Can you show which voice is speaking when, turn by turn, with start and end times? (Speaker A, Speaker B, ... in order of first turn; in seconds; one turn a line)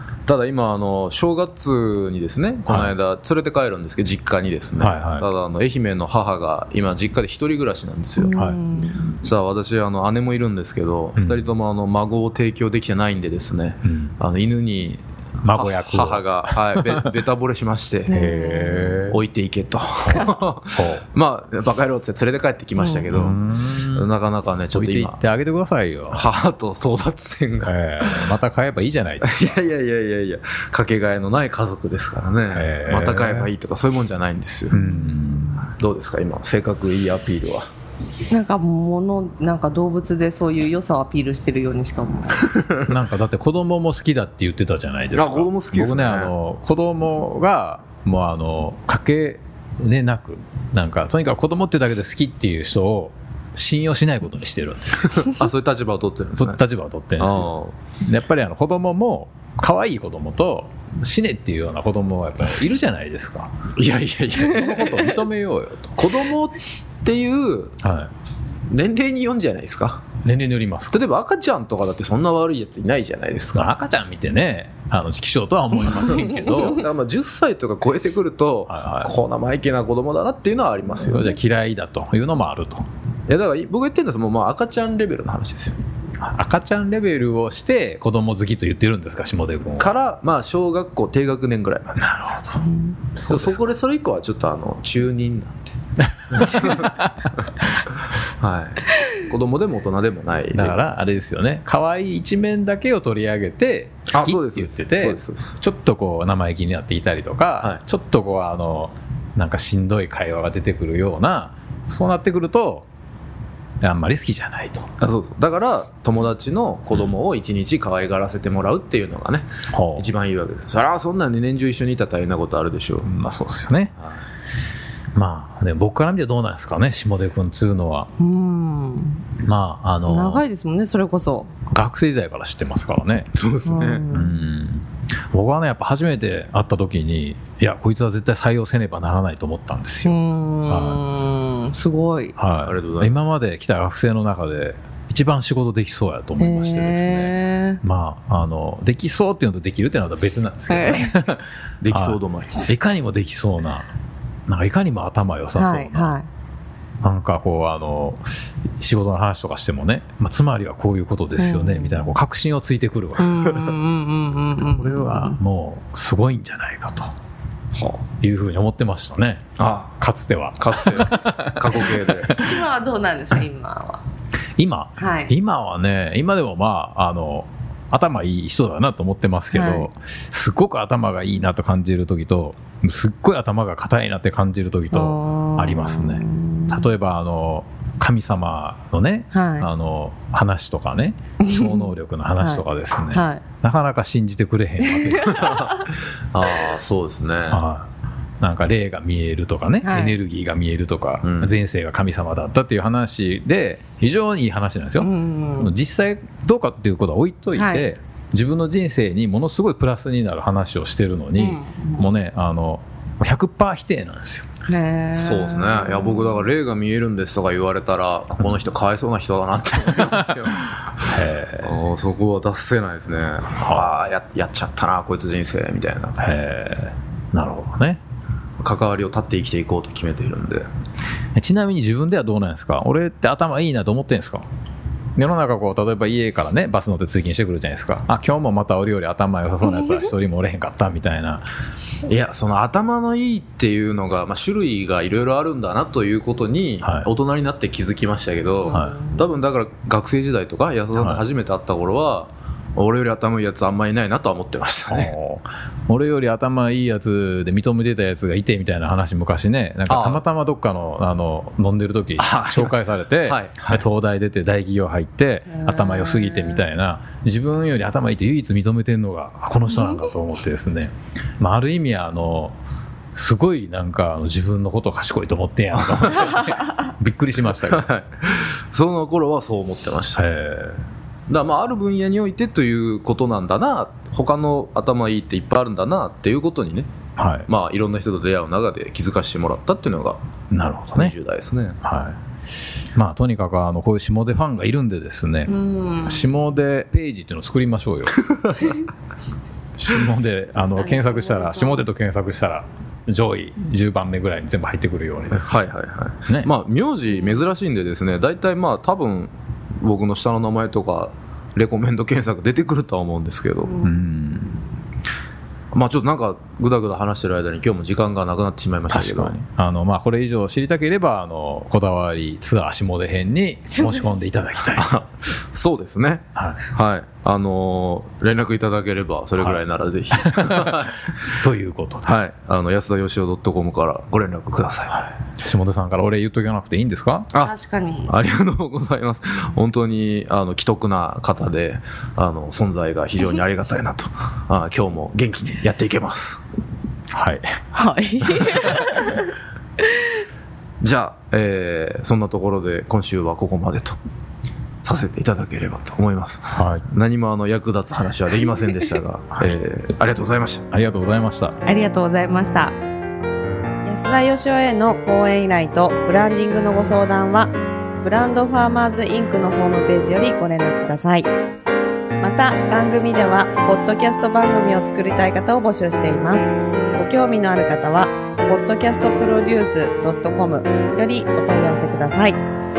Speaker A: 0.2-8.3
Speaker B: 4.8-5.2
Speaker C: 8.2-9.2
Speaker A: 9.2-15.0
Speaker B: 13.8-14.1
Speaker B: 15.4-17.1
Speaker A: 15.5-18.2
Speaker B: 18.1-19.2
Speaker C: 18.1-18.8
Speaker A: 18.8-25.2
Speaker B: 20.8-21.0
Speaker C: 22.8-23.0
Speaker B: 23.1-24.1
Speaker B: 24.7-26.2
Speaker A: 26.1-28.4
Speaker B: 27.6-29.5
Speaker A: 29.2-34.8
Speaker B: 32.5-33.5
Speaker B: 34.7-35.6
Speaker C: 34.8-35.1
Speaker A: 35.6-37.6
Speaker C: 38.3-42.5
Speaker A: 42.4-42.8
Speaker B: 42.9-55.2
Speaker A: 45.1-46.3
Speaker A: 55.1-56.6
Speaker B: 56.4-63.5
Speaker A: 57.2-57.7
Speaker A: 63.8-65.2
Speaker B: 64.4-65.9
Speaker A: 66.0-67.8
Speaker B: 67.8-68.1
Speaker A: 68.7-70.0
Speaker B: 70.2-70.9
Speaker A: 70.9-73.7
Speaker B: 73.5-76.8
Speaker A: 76.3-81.3
Speaker B: 78.7-79.1
Speaker B: 81.0-82.8
Speaker A: 83.3-85.8
Speaker B: 86.2-89.9
Speaker A: 89.8-92.4
Speaker B: 92.0-92.6
Speaker C: 92.6-93.0
Speaker B: 93.1-93.6
Speaker A: 93.3-95.7
Speaker B: 96.3-97.3
Speaker A: 96.3-96.9
Speaker A: 98.2-100.8
Speaker B: 100.5-112.8
Speaker A: 104.1-105.6
Speaker B: 113.8-114.9
Speaker A: 115.0-123.1
Speaker B: 119.7-120.1
Speaker B: 123.0-123.9
Speaker B: 125.1-128.1
Speaker C: 128.2-129.2
Speaker B: 129.4-130.4
Speaker C: 130.1-131.5
Speaker B: 131.7-133.3
Speaker A: 133.3-134.1
Speaker C: 133.7-134.3
Speaker B: 134.1-140.2
Speaker C: 140.0-142.3
Speaker B: 140.7-141.0
Speaker B: 142.3-153.9
Speaker A: 142.6-143.2
Speaker C: 146.4-147.8
Speaker C: 150.7-151.2
Speaker A: 151.8-152.7
Speaker B: 154.5-156.2
Speaker C: 155.5-156.3
Speaker B: 157.0-158.2
Speaker B: 158.8-163.7
Speaker C: 161.4-162.1
Speaker C: 163.2-165.4
Speaker B: 164.8-167.1
Speaker A: 167.7-168.0
Speaker B: 168.2-169.5
Speaker A: 169.6-169.9
Speaker B: 170.0-172.6
Speaker A: 170.6-172.3
Speaker C: 172.3-174.0
Speaker B: 174.6-195.7
Speaker C: 175.0-175.3
Speaker C: 179.5-179.9
Speaker C: 184.9-186.9
Speaker C: 189.3-189.7
Speaker C: 191.4-193.4
Speaker C: 195.0-195.6
Speaker A: 195.3-197.6
Speaker B: 197.5-197.9
Speaker B: 198.4-214.4
Speaker C: 199.8-200.2
Speaker A: 201.2-201.6
Speaker C: 205.0-205.7
Speaker C: 207.5-207.8
Speaker C: 211.4-212.1
Speaker C: 214.7-216.4
Speaker A: 215.1-226.2
Speaker B: 221.1-221.7
Speaker B: 226.2-228.0
Speaker A: 228.6-230.7
Speaker B: 231.3-234.4
Speaker B: 235.2-241.4
Speaker A: 242.1-255.1
Speaker B: 246.8-247.1
Speaker C: 248.7-249.2
Speaker B: 248.7-248.9
Speaker B: 251.0-251.2
Speaker B: 254.9-272.6
Speaker A: 259.9-260.2
Speaker A: 262.2-263.8
Speaker C: 265.5-266.6
Speaker B: 273.1-277.8
Speaker A: 275.9-276.3
Speaker A: 277.4-280.2
Speaker B: 280.2-280.8
Speaker A: 281.3-286.9
Speaker B: 287.2-287.5
Speaker A: 287.5-290.2
Speaker B: 290.5-291.1
Speaker A: 290.9-291.8
Speaker B: 291.8-292.1
Speaker B: 292.9-295.5
Speaker C: 295.5-296.3
Speaker B: 296.1-298.2
Speaker A: 298.3-298.6
Speaker B: 299.8-305.6
Speaker C: 300.7-301.8
Speaker A: 305.3-313.8
Speaker B: 313.8-314.6
Speaker A: 315.7-319.4
Speaker B: 318.9-324.9
Speaker C: 323.8-324.1
Speaker A: 324.7-331.1
Speaker B: 330.1-330.7
Speaker B: 331.3-332.2
Speaker A: 332.1-335.0
Speaker B: 334.9-337.3
Speaker C: 337.4-338.1
Speaker A: 338.1-346.4
Speaker B: 347.1-347.5
Speaker C: 347.7-350.2
Speaker A: 350.8-353.9
Speaker A: 354.8-360.6
Speaker B: 356.6-356.9
Speaker B: 360.7-361.6
Speaker C: 361.6-362.7
Speaker C: 363.8-371.3
Speaker C: 372.2-382.4